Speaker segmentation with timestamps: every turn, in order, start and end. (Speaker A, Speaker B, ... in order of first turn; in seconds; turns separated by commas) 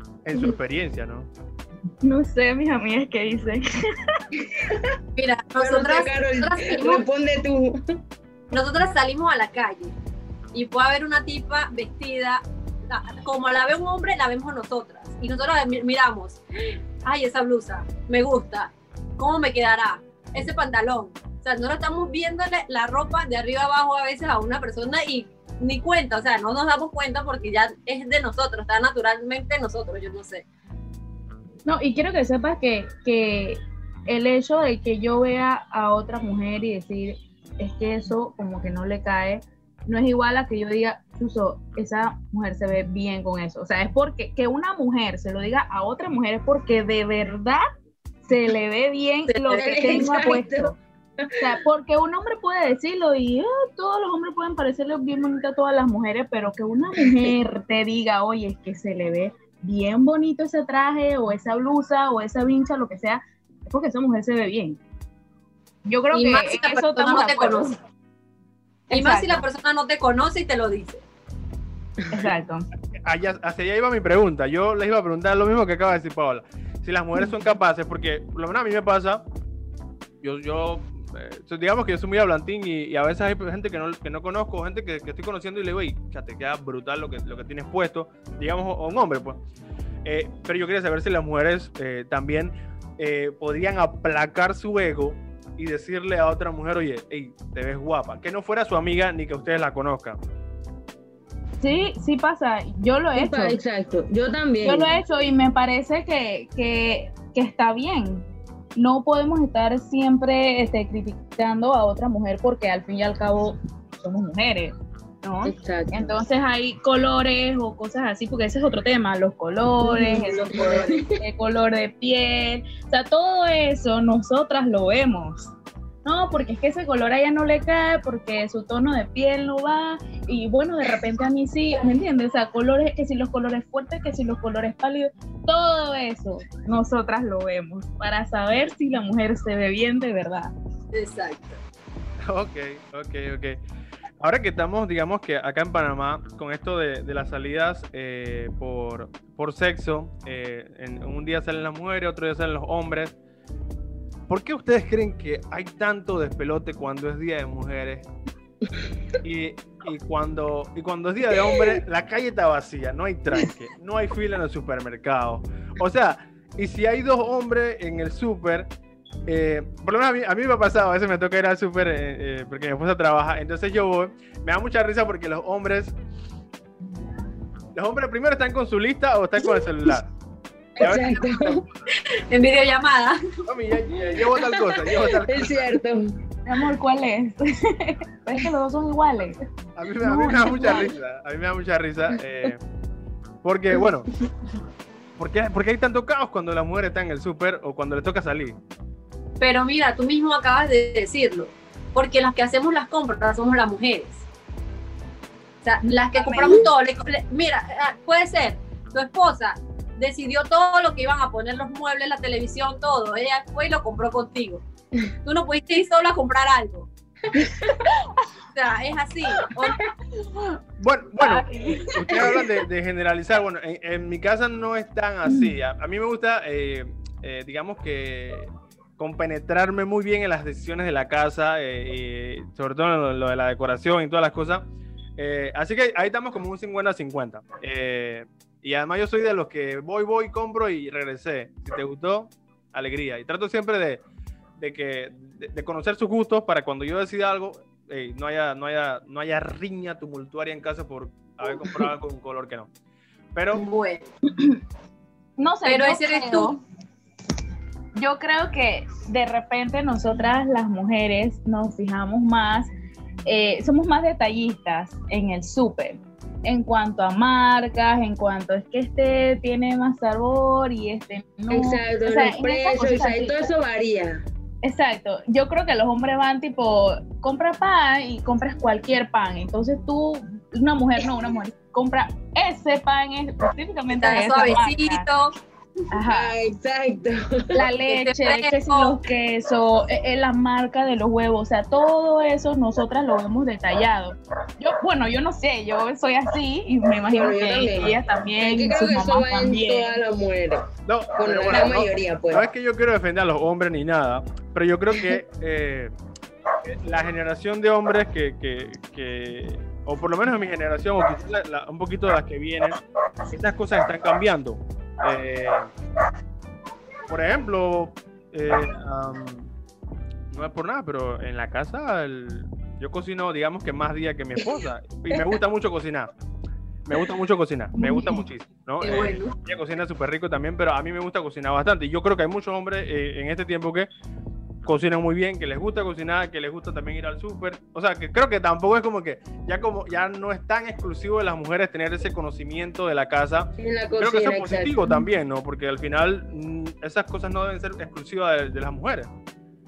Speaker A: 0.2-1.3, Speaker B: 2.0-4.2, Speaker C: 4.4-5.0, Speaker D: 5.2-7.0, Speaker C: 5.6-7.8, Speaker D: 8.5-9.9, Speaker D: 10.5-16.4, Speaker D: 17.0-30.4, Speaker B: 31.7-47.6, Speaker B: 48.2-50.8, Speaker D: 49.3-50.3, Speaker C: 49.6-51.5, Speaker B: 51.4-64.8, Speaker C: 57.0-57.3, Speaker B: 65.9-67.8, Speaker D: 66.1-67.8, Speaker B: 68.9-69.5, Speaker D: 68.9-71.0, Speaker B: 72.1-72.7, Speaker A: 73.0-79.2, Speaker A: 80.2-89.4, Speaker A: 90.0-100.2, Speaker B: 101.6-103.6, Speaker C: 103.2-104.9, Speaker B: 104.6-125.5, Speaker C: 115.4-116.2, Speaker C: 119.8-121.1, Speaker B: 126.0-140.5, Speaker D: 140.9-141.6, Speaker A: 142.2-143.6, Speaker A: 144.2-153.2, Speaker A: 154.3-158.1, Speaker A: 159.2-168.7, Speaker A: 169.3-176.0, Speaker A: 177.8-180.1, Speaker C: 180.8-181.6, Speaker A: 180.8-181.7, Speaker D: 181.9-183.2, Speaker A: 183.5-185.8, Speaker C: 184.1-186.1, Speaker B: 186.5-189.4, Speaker A: 189.8-192.6, Speaker B: 190.0-190.9, Speaker A: 193.4-194.1, Speaker A: 195.2-198.6, Speaker D: 199.4-204.2, Speaker D: 205.6-214.6, Speaker B: 205.8-206.6, Speaker D: 215.2-216.9, Speaker C: 217.3-217.9, Speaker D: 218.5-219.8, Speaker A: 220.8-244.0, Speaker B: 221.2-222.4, Speaker B: 225.3-225.6, Speaker A: 244.6-252.7, Speaker A: 253.3-253.6, Speaker D: 253.5-254.1, Speaker B: 255.4-256.6, Speaker D: 255.7-256.5, Speaker B: 258.0-262.7, Speaker B: 263.3-273.4, Speaker C: 271.5-274.2, Speaker B: 274.6-285.1, Speaker D: 283.9-285.3, Speaker B: 285.9-286.3, Speaker C: 286.1-287.7, Speaker B: 287.5-300.0, Speaker D: 287.9-289.0, Speaker C: 297.1-302.5, Speaker A: 300.9-305.9, Speaker A: 306.6-315.7, Speaker A: 317.1-319.5, Speaker A: 320.3-326.1, Speaker A: 326.9-333.9, Speaker B: 327.8-328.2, Speaker D: 328.8-329.3, Speaker A: 334.6-349.1, Speaker C: 343.6-344.8